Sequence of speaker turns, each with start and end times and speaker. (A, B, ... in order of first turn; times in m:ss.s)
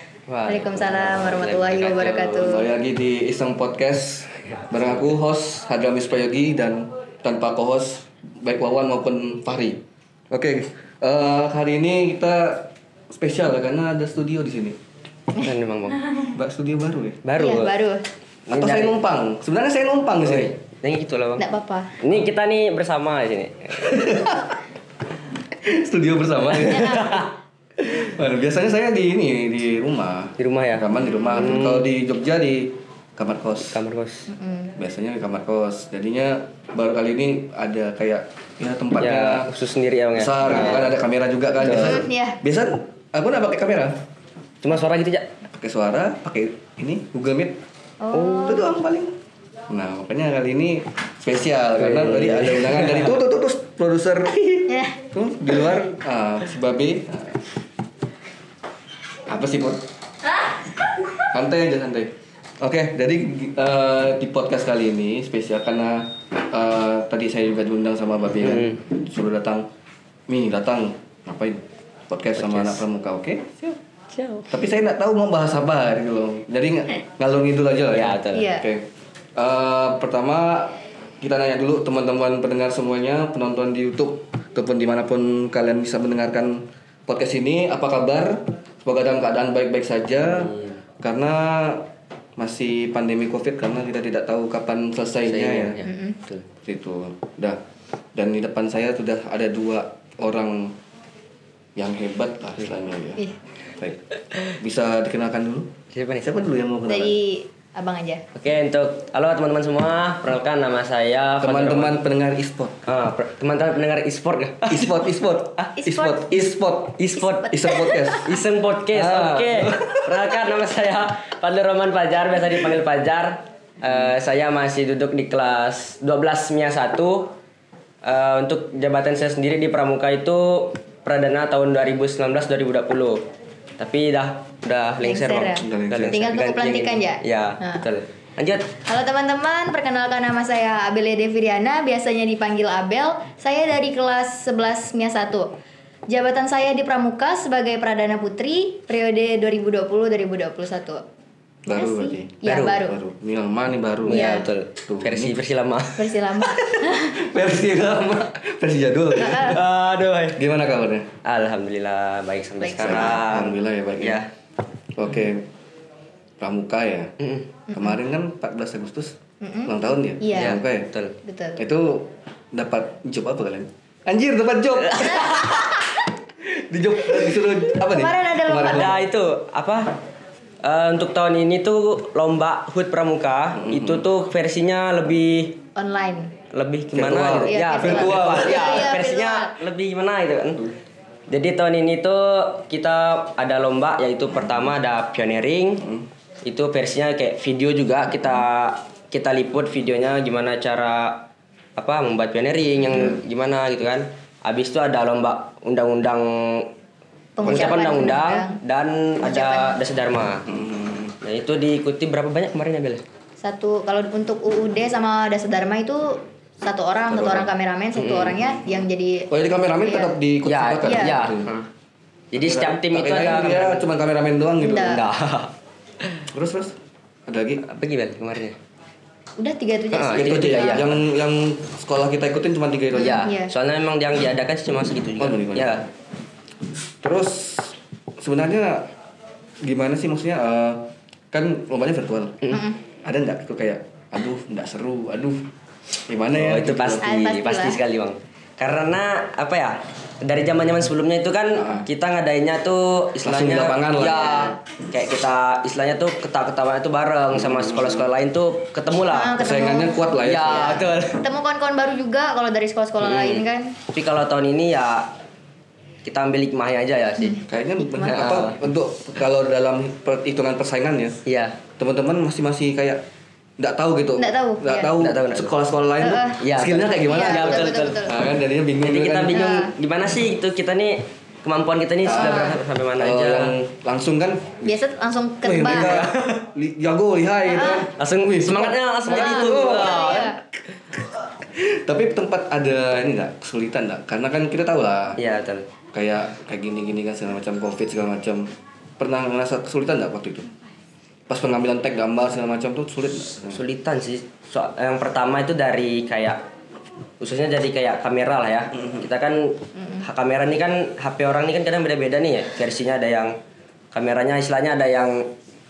0:00.3-0:02.5 A
0:00.5-0:02.7 B
0:02.4-0:14.8 C
0:15.4-0:16.2 A
0:16.3-0:17.2 C
0:17.2-0:17.8 A
0:17.4-0:18.1 B
0:18.5-0:19.0 A
0:18.5-0:20.5 C
0:20.2-0:21.4 A
0:21.4-0:22.0 B
0:22.0-0:24.0 A
0:23.8-0:24.6 C
0:25.5-0:27.2 C
0:26.5-0:27.3 A
0:26.7-0:27.2 B
0:27.9-0:33.8 C
0:30.4-0:31.9 A
0:33.7-0:34.3 A
0:34.3-0:34.7 B
0:34.8-0:39.5 C
0:39.0-0:41.0 A
0:40.1-0:44.0 C
0:41.6-0:42.0 A
0:41.7-0:42.4 B
0:44.6-0:45.3 A
0:45.5-0:47.6 C
0:48.0-0:48.7 B
0:48.2-0:49.1 C
0:49.7-0:57.4 C
0:51.8-0:53.2 A
0:54.7-0:55.0 B
0:59.3-0:59.8 C
1:01.2-1:09.7 C
1:08.4-1:08.8 A
1:10.3-1:13.8 C
1:12.4-1:12.8 A
1:14.1-1:14.5 A
1:14.5-1:35.8 C
1:17.9-1:18.5 A
1:18.3-1:18.7 B
1:30.3-1:30.8 A
1:35.2-1:36.4 A
1:35.8-1:36.2 B
1:36.6-1:37.6 C
1:38.2-1:40.8 C
1:41.8-1:43.2 C
1:44.6-1:47.2 C
1:45.9-1:46.3 A
1:46.9-1:48.2 B
1:48.4-1:52.0 A
1:51.4-1:52.8 C
1:52.9-1:54.9 A
1:54.7-1:58.4 C
1:55.8-1:56.2 B
1:57.0-1:57.6 A
1:57.6-1:58.2 B
1:58.2-2:07.3 A
1:58.9-2:00.3 C
2:08.0-2:13.3 A
2:13.8-2:18.7 A
2:15.0-2:17.8 B
2:15.6-2:16.2 C
2:18.8-2:25.5 B
2:26.1-2:31.0 B
2:31.7-2:35.4 C
2:31.7-2:33.0 B
2:32.4-2:32.8 A
2:34.1-2:36.2 A
2:34.1-2:34.5 B
2:36.0-2:37.2 B
2:36.6-2:39.6 C
2:39.2-2:39.6 B
2:39.2-2:40.4 A
2:40.4-2:41.1 C
2:41.2-2:44.3 A
2:42.6-2:43.2 B
2:42.8-2:44.2 C
2:45.0-2:45.5 C
2:46.4-2:47.1 C
2:47.2-2:47.6 A
2:47.7-2:50.9 C
2:49.4-2:50.6 B
2:50.3-2:51.2 A
2:51.2-2:51.6 B
2:51.6-2:55.8 C
2:54.8-2:55.9 A
2:56.4-2:59.0 C
2:57.8-2:58.9 B
2:58.5-3:00.0 A
3:00.6-3:05.6 A
3:03.5-3:04.1 C
3:05.8-3:06.3 B
3:06.5-3:10.6 A
3:06.9-3:08.9 C
3:07.5-3:09.6 B
3:11.3-3:15.8 A
3:15.8-3:16.1 C
3:16.4-3:26.7 A
3:22.9-3:23.2 C
3:27.4-3:28.6 B
3:27.4-3:30.5 A
3:29.2-3:29.8 B
3:30.4-3:31.2 C
3:31.2-3:33.0 A
3:33.4-3:39.3 B
3:37.1-3:37.5 C
3:38.0-3:38.5 A
3:39.3-3:41.5 C
3:39.8-3:40.1 B
3:40.4-3:41.7 A
3:40.8-3:41.2 B
3:42.3-3:43.9 A
3:42.4-3:45.0 C
3:44.6-3:45.0 B
3:44.8-3:45.5 A
3:46.3-3:47.6 C
3:47.6-3:48.6 A
3:49.4-3:50.8 B
3:49.9-3:51.0 A
3:50.1-3:53.2 C
3:53.0-3:55.9 A
3:53.0-3:53.5 B
3:55.2-3:55.8 C
3:57.0-3:58.9 C
3:59.6-4:02.4 C
4:02.5-4:02.8 B
4:03.0-4:05.5 C
4:06.1-4:07.1 C
4:06.3-4:19.4 A
4:07.0-4:07.8 B
4:11.6-4:11.9 C
4:13.2-4:14.5 C
4:14.1-4:14.6 B
4:17.3-4:18.1 C
4:19.1-4:23.8 B
4:19.4-4:21.0 C
4:20.2-4:21.2 A
4:23.0-4:25.2 A
4:26.0-4:27.4 A
4:27.2-4:28.3 B
4:27.5-4:31.2 C
4:28.1-4:28.6 A
4:31.3-4:31.6 A
4:31.8-4:33.0 C
4:33.6-4:39.5 C
4:34.2-4:34.9 B
4:35.0-4:35.5 A
4:36.0-4:36.4 B
4:36.4-4:38.1 A
4:37.0-4:38.2 B
4:38.8-4:43.6 A
4:39.3-4:39.7 B
4:42.0-4:44.8 C
4:42.1-4:42.6 B
4:44.6-4:46.0 B
4:45.4-4:50.3 C
4:45.5-4:46.5 A
4:47.5-4:47.8 B
4:47.9-4:50.4 A
4:49.1-4:50.4 B
4:51.4-4:55.2 C
4:55.2-4:55.7 A
4:55.9-5:00.5 C
5:01.3-5:03.6 C
5:03.5-5:06.4 A
5:07.2-5:13.3 A
5:08.7-5:09.1 C
5:09.8-5:10.0 B
5:13.9-5:15.3 A